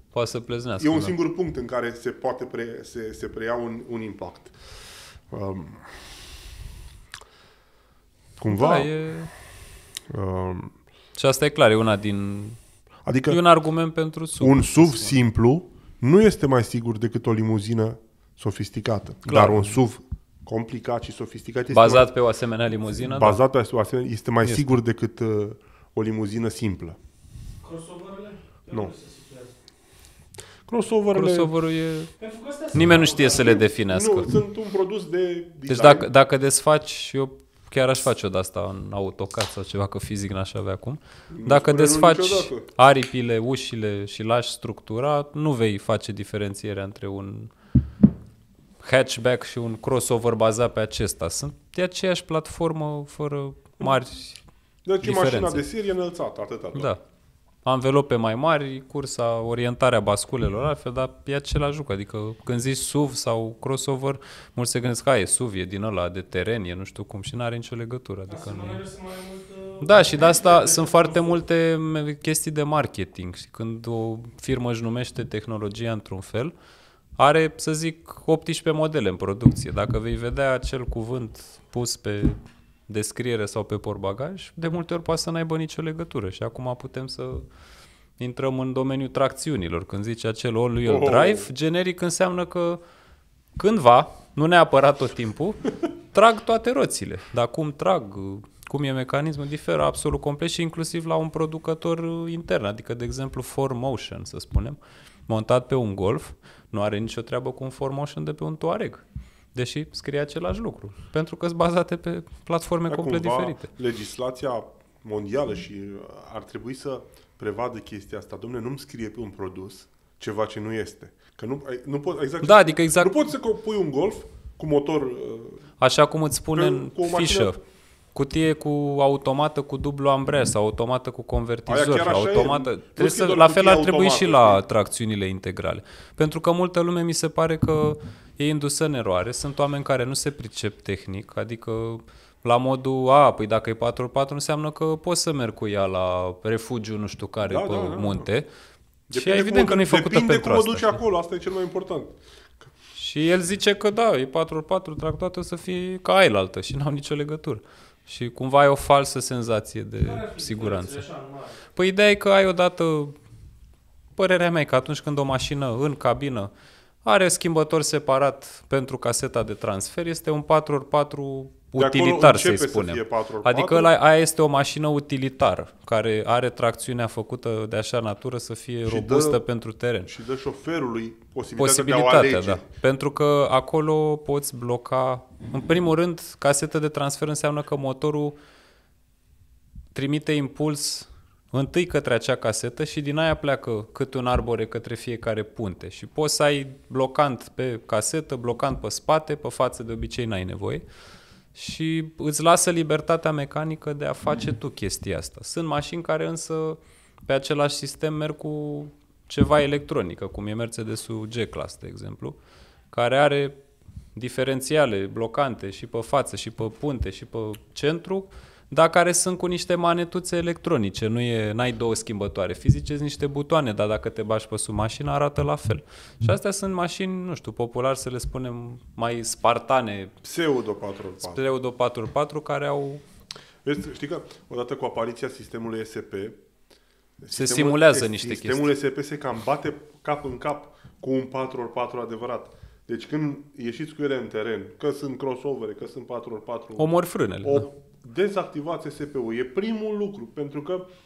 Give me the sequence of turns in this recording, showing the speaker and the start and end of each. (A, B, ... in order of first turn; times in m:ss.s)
0:00.1-0:01.1 A
0:00.8-0:04.6 B
0:05.3-0:06.3 B
0:08.4-0:08.9 B
0:08.4-0:09.3 A
0:10.1-0:10.8 B
0:11.2-0:12.6 A
0:13.0-0:13.4 B
0:13.3-0:15.2 A
0:14.4-0:22.1 B
0:19.2-0:19.8 A
0:21.7-0:23.4 A
0:22.9-0:27.0 B
0:24.4-0:24.8 A
0:27.6-0:29.6 C
0:30.7-0:31.5 B
0:31.1-0:32.1 A
0:32.2-0:33.6 C
0:32.7-0:34.3 A
0:33.3-0:36.0 B
0:35.7-0:47.5 A
0:41.3-0:42.6 B
0:48.8-0:54.4 A
0:54.8-0:56.9 B
0:55.0-0:55.6 A
0:56.7-0:57.0 A
0:57.6-1:08.8 A
1:08.3-1:11.4 C
1:09.8-1:16.5 A
1:17.2-1:27.4 A
1:28.2-1:32.8 A
1:30.8-1:31.5 B
1:33.6-1:49.0 A
1:49.5-1:53.7 A
1:52.9-2:05.6 B
2:02.4-2:03.2 A
2:05.8-2:07.6 A
2:06.5-2:07.5 B
2:08.1-2:28.5 A
2:11.7-2:14.6 B
2:27.4-2:28.2 B
2:29.1-2:32.1 B
2:29.1-2:31.0 A
2:32.9-2:41.0 A
2:40.0-2:41.6 C
2:41.7-2:43.2 A
2:44.2-2:46.5 A
2:47.0-3:00.1 A
2:51.8-2:53.9 B
2:58.8-2:59.4 B
3:00.0-3:02.6 B
3:01.6-3:08.4 A
3:09.9-3:20.8 A
3:21.5-3:32.4 A
3:32.9-3:33.6 A
3:34.1-3:50.1 A
3:50.2-3:51.4 B
3:51.2-3:53.0 A
3:53.6-3:56.4 B
3:57.2-4:06.9 B
3:57.3-3:58.7 A
4:06.8-4:07.7 A
4:07.4-4:10.8 B